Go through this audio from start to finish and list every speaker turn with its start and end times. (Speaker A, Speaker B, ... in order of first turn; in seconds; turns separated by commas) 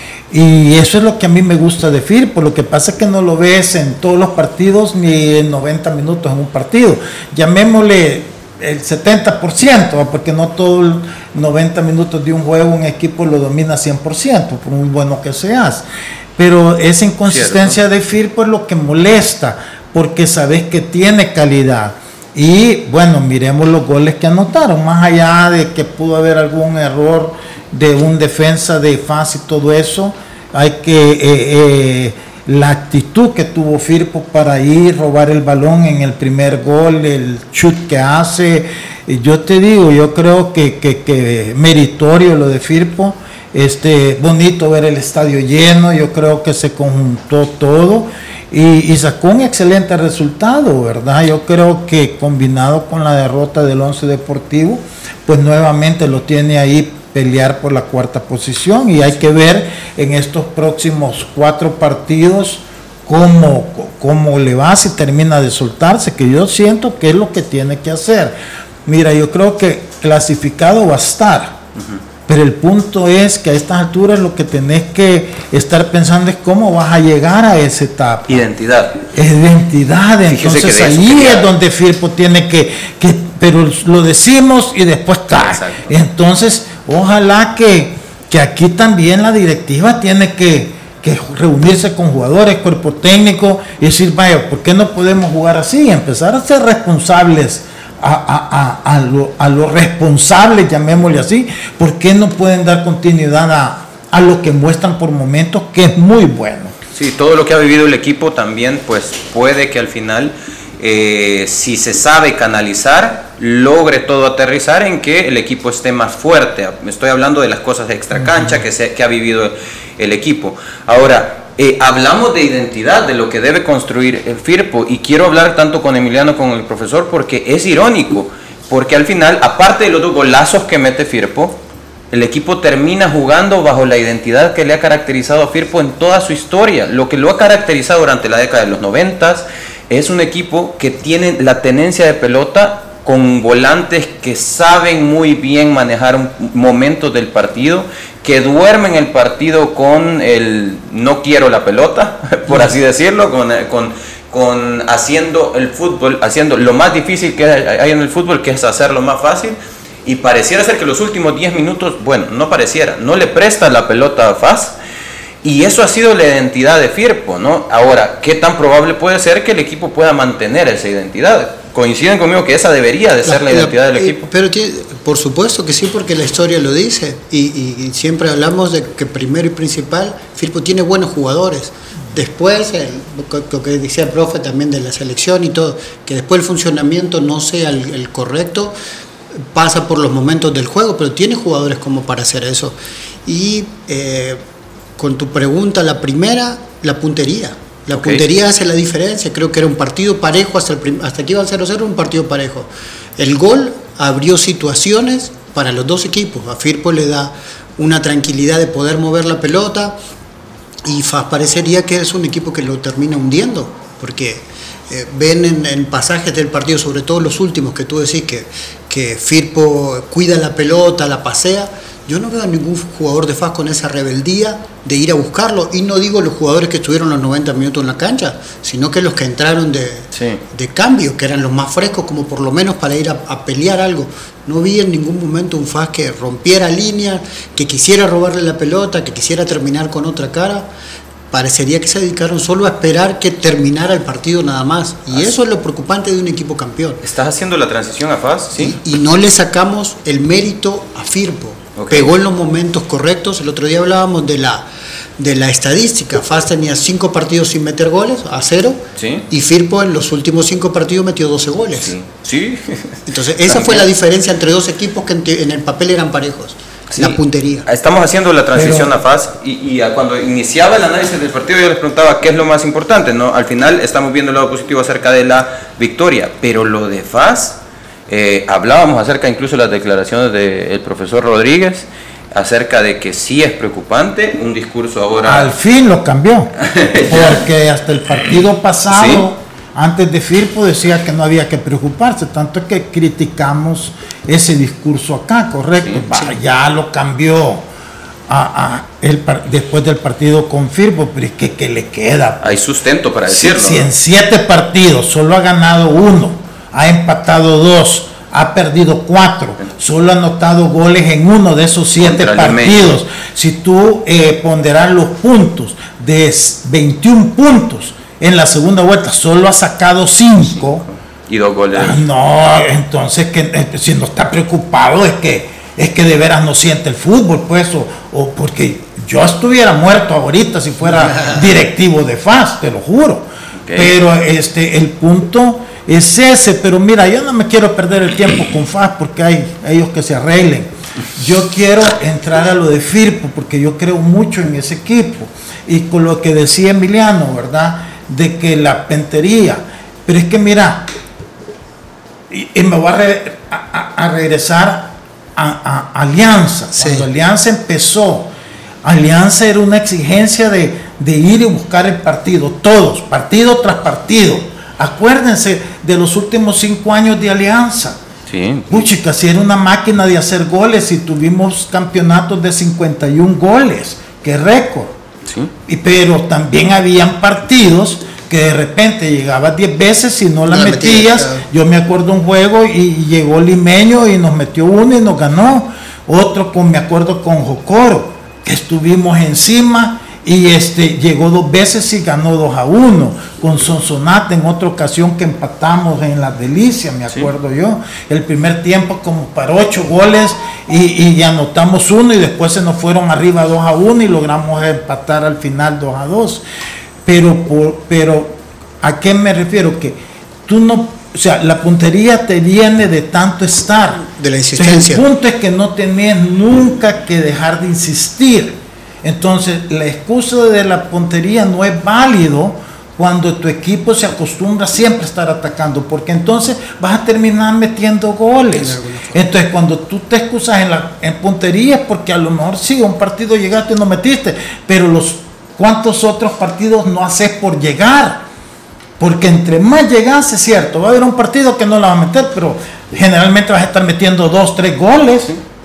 Speaker A: 0.3-71.6, Speaker B: 17.3-17.8, Speaker A: 72.3-78.5, Speaker B: 78.3-79.0, Speaker A: 79.1-106.7, Speaker B: 80.3-81.5, Speaker B: 85.4-85.9, Speaker B: 106.9-131.6, Speaker B: 132.1-164.7, Speaker B: 165.4-174.3, Speaker C: 173.2-188.7, Speaker C: 189.4-194.4, Speaker C: 195.0-210.0, Speaker B: 197.9-198.2, Speaker C: 210.8-240.7, Speaker B: 230.1-230.4, Speaker C: 241.3-247.0, Speaker B: 247.0-248.8, Speaker C: 248.5-254.7, Speaker B: 251.8-252.1, Speaker C: 255.2-261.9, Speaker B: 259.0-259.2, Speaker B: 261.8-263.9, Speaker C: 263.1-267.7, Speaker B: 266.9-285.5, Speaker A: 268.5-268.9, Speaker A: 285.2-286.5, Speaker B: 286.6-287.4, Speaker A: 287.1-297.6, Speaker B: 288.9-289.2, Speaker A: 298.3-302.6, Speaker B: 302.4-303.9, Speaker A: 303.3-320.8, Speaker B: 312.0-312.9, Speaker B: 320.4-322.0, Speaker A: 321.7-350.9, Speaker B: 333.6-333.9, Speaker A: 352.3-358.3, Speaker C: 356.8-357.1, Speaker A: 358.8-368.0, Speaker B: 368.3-368.9, Speaker A: 368.7-374.9, Speaker B: 375.2-375.5, Speaker A: 375.6-406.4, Speaker C: 380.5-381.4, Speaker A: 407.0-438.2, Speaker C: 414.0-415.0, Speaker C: 428.6-429.2, Speaker A: 439.0-445.3